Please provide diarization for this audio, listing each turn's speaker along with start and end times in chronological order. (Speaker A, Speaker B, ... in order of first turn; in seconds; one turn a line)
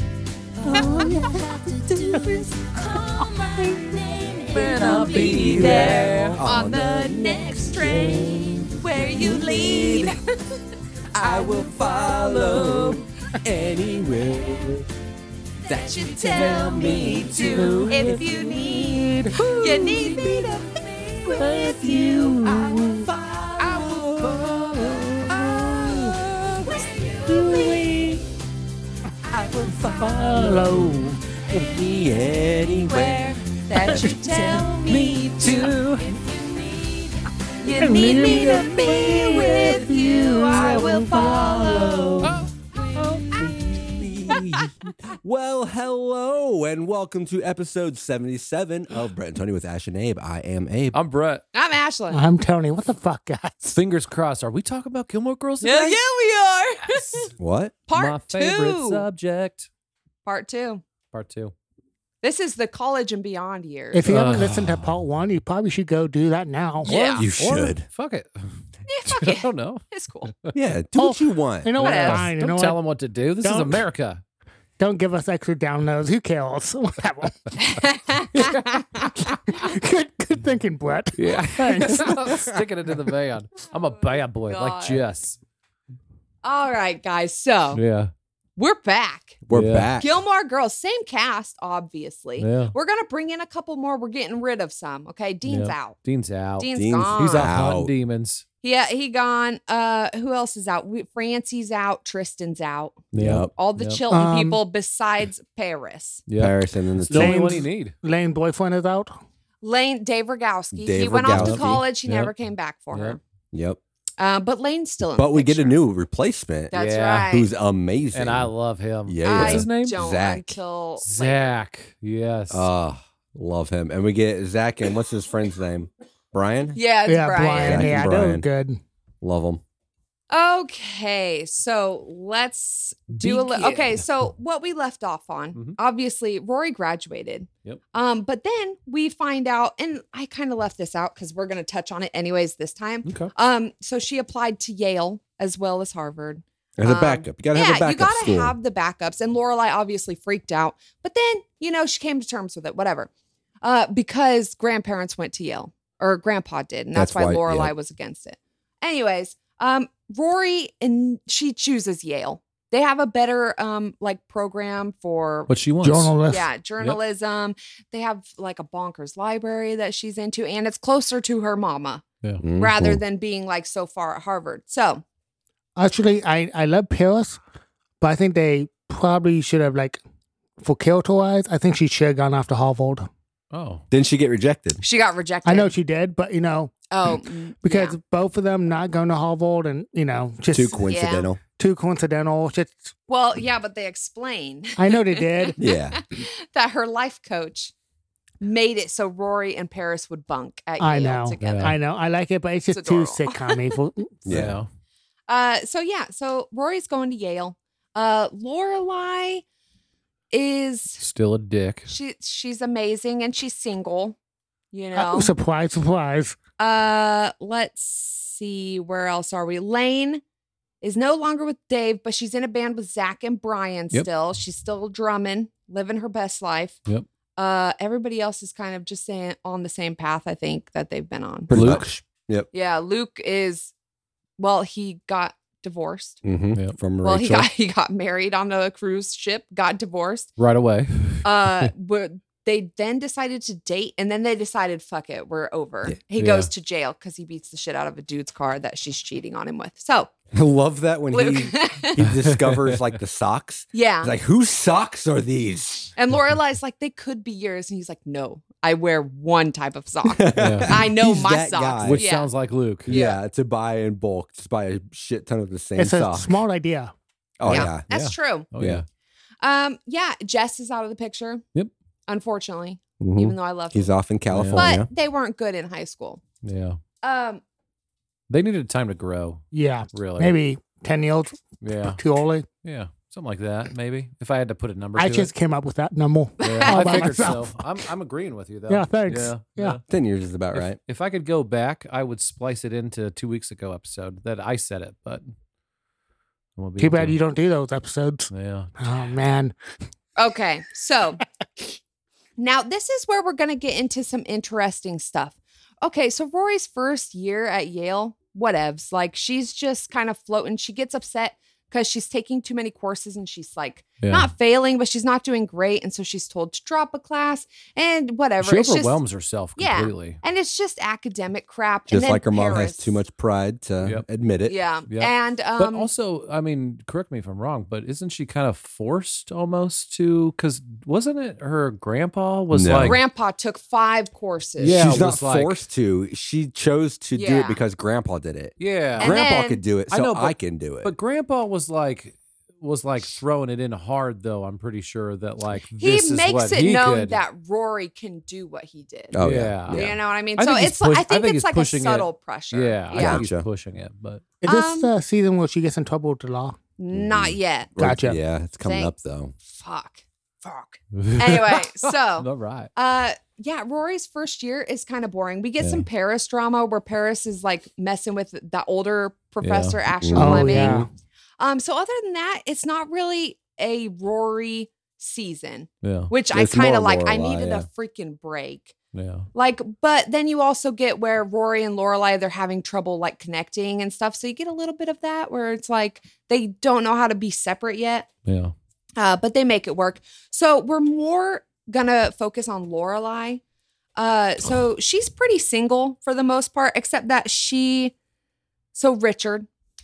Speaker A: 0.6-10.1
Speaker B: 0.7-2.5
Speaker B: 3.0-3.9
Speaker B: 4.6-6.0
Speaker C: 4.7-6.4
Speaker D: 5.2-10.2
Speaker E: 5.6-8.7
Speaker E: 9.2-10.1
Speaker D: 11.2-11.6
Speaker A: 11.2-13.1
Speaker E: 11.2-14.8
Speaker A: 14.2-14.8
Speaker A: 15.7-28.2
Speaker D: 15.7-20.7
Speaker E: 16.5-17.8
Speaker B: 17.4-19.4
Speaker D: 21.2-23.4
Speaker B: 21.4-23.1
Speaker E: 23.6-25.1
Speaker B: 25.3-26.0
Speaker D: 25.3-26.0
Speaker D: 26.5-26.8
Speaker B: 27.3-28.2
Speaker A: 29.3-30.7
Speaker E: 29.3-30.8
Speaker B: 30.0-31.2
Speaker E: 31.5-33.3
Speaker A: 31.5-33.2
Speaker D: 32.9-35.8
Speaker A: 33.7-44.3
Speaker C: 35.1-36.0
Speaker D: 37.6-43.5
Speaker B: 37.8-41.4
Speaker E: 40.5-42.4
Speaker E: 43.4-51.0
Speaker C: 50.9-51.4
Speaker D: 51.5-52.2
Speaker B: 52.1-53.8
Speaker C: 53.7-56.0
Speaker D: 55.6-57.3
Speaker E: 57.4-57.8
Speaker D: 57.9-59.0
Speaker C: 57.9-59.7
Speaker D: 60.2-60.8
Speaker C: 61.1-61.5
Speaker D: 62.2-64.2
Speaker B: 63.9-66.9
Speaker C: 64.1-65.0
Speaker D: 66.8-67.3
Speaker C: 66.8-68.5
Speaker E: 67.2-67.9
Speaker D: 68.9-70.3
Speaker C: 69.1-69.8
Speaker E: 70.5-71.7
Speaker B: 71.0-72.8
Speaker C: 71.8-74.2
Speaker D: 71.8-72.3
Speaker B: 73.4-73.8
Speaker B: 74.8-77.8
Speaker D: 77.6-79.3
Speaker B: 79.2-82.5
Speaker C: 81.2-85.4
Speaker D: 82.1-82.3
Speaker D: 83.7-85.0
Speaker D: 86.4-87.8
Speaker C: 87.7-88.1
Speaker D: 88.6-89.4
Speaker E: 89.5-90.1
Speaker C: 89.5-89.9
Speaker D: 90.0-96.0
Speaker C: 92.4-92.8
Speaker C: 95.5-98.4
Speaker D: 96.6-97.5
Speaker E: 96.8-97.9
Speaker D: 98.6-103.0
Speaker C: 103.1-104.0
Speaker E: 103.2-103.5
Speaker D: 103.5-106.2
Speaker B: 104.1-104.6
Speaker C: 106.3-108.0
Speaker E: 106.4-107.6
Speaker B: 107.1-109.2
Speaker D: 109.6-113.2
Speaker E: 110.8-111.8
Speaker C: 111.3-112.3
Speaker C: 112.9-113.2
Speaker E: 113.5-113.8
Speaker D: 114.2-115.8
Speaker E: 115.2-116.7
Speaker D: 116.7-117.5
Speaker C: 116.7-117.3
Speaker E: 117.3-118.5
Speaker C: 118.1-120.0
Speaker E: 119.1-120.6
Speaker D: 119.2-121.5
Speaker C: 121.0-122.7
Speaker E: 122.5-126.8
Speaker D: 126.8-128.1
Speaker B: 127.1-128.8
Speaker E: 127.5-128.4
Speaker E: 129.2-129.6
Speaker D: 130.3-153.1
Speaker C: 133.2-133.8
Speaker C: 143.1-143.3
Speaker E: 146.8-148.6
Speaker D: 153.6-165.5
Speaker E: 156.9-157.7
Speaker C: 165.5-166.2
Speaker B: 165.8-166.5
Speaker D: 166.3-172.0
Speaker E: 172.4-173.0
Speaker D: 172.6-175.0
Speaker B: 175.8-177.4
Speaker B: 178.0-180.0
Speaker B: 180.6-183.1
Speaker C: 183.5-183.8
Speaker E: 183.9-184.8
Speaker D: 184.8-185.7
Speaker B: 185.4-191.0
Speaker D: 186.9-188.0
Speaker E: 190.5-191.4
Speaker D: 190.9-191.3
Speaker B: 191.6-192.9
Speaker D: 193.1-197.7
Speaker B: 194.8-195.6
Speaker E: 195.6-196.1
Speaker D: 198.4-201.8
Speaker B: 200.8-204.2
Speaker C: 201.4-201.8
Speaker D: 202.7-203.8
Speaker E: 204.3-204.6
Speaker C: 204.3-204.7
Speaker D: 205.3-209.4
Speaker D: 210.3-211.0
Speaker C: 211.0-211.9
Speaker D: 211.9-214.2
Speaker D: 214.7-215.3
Speaker B: 214.9-216.4
Speaker D: 216.6-220.2
Speaker D: 220.8-226.8
Speaker D: 227.4-231.7
Speaker E: 231.5-232.5
Speaker C: 231.5-231.9
Speaker D: 232.5-233.7
Speaker D: 234.4-236.2
Speaker E: 236.2-237.5
Speaker D: 237.0-240.3
Speaker C: 240.4-241.7
Speaker D: 241.2-250.1
Speaker C: 246.2-246.5
Speaker E: 250.3-255.9
Speaker D: 251.1-252.1
Speaker C: 252.1-252.8
Speaker D: 253.7-254.1
Speaker D: 256.0-262.3
Speaker E: 260.1-262.0
Speaker C: 260.4-260.9
Speaker C: 261.8-262.9
Speaker E: 262.9-266.4
Speaker D: 262.9-263.2
Speaker B: 265.8-266.9
Speaker E: 267.4-267.9
Speaker C: 267.4-268.9
Speaker D: 267.4-268.5
Speaker E: 268.6-268.8
Speaker D: 269.4-271.4
Speaker D: 272.1-273.9
Speaker E: 273.0-274.9
Speaker C: 274.3-274.7
Speaker D: 274.6-276.2
Speaker C: 276.4-276.8
Speaker D: 277.0-277.4
Speaker C: 278.3-280.4
Speaker B: 279.5-282.5
Speaker C: 281.6-282.0
Speaker C: 282.6-285.3
Speaker B: 285.0-287.8
Speaker D: 286.4-287.1
Speaker C: 286.4-289.8
Speaker B: 288.7-289.8
Speaker E: 289.9-290.8
Speaker C: 290.5-295.2
Speaker C: 296.6-297.2
Speaker B: 296.8-299.5
Speaker C: 298.3-298.7
Speaker D: 300.2-301.2
Speaker D: 302.4-319.0
Speaker C: 314.0-314.3
Speaker C: 318.4-320.2
Speaker D: 319.6-323.0
Speaker E: 321.9-324.6
Speaker D: 324.5-325.9
Speaker C: 324.9-333.0
Speaker E: 332.5-333.0
Speaker D: 332.8-334.8
Speaker C: 334.6-335.6
Speaker E: 334.6-340.9
Speaker D: 337.1-337.6
Speaker C: 338.6-339.3
Speaker D: 339.0-339.6
Speaker C: 339.9-347.2
Speaker D: 345.8-349.2
Speaker E: 349.1-350.0
Speaker C: 349.2-354.2
Speaker D: 349.7-353.3
Speaker E: 352.9-353.5
Speaker B: 354.4-356.6
Speaker D: 354.4-354.9
Speaker D: 356.8-357.7
Speaker E: 356.9-359.3
Speaker B: 357.8-358.2
Speaker D: 358.6-370.9
Speaker C: 360.9-362.7
Speaker C: 369.4-369.8
Speaker E: 370.0-370.9
Speaker B: 370.1-370.9
Speaker D: 371.4-378.7
Speaker C: 375.8-376.1
Speaker E: 376.3-377.7
Speaker C: 378.9-379.3
Speaker D: 379.3-388.1
Speaker C: 388.3-388.5
Speaker D: 389.0-393.4
Speaker D: 394.0-397.9
Speaker D: 398.7-399.5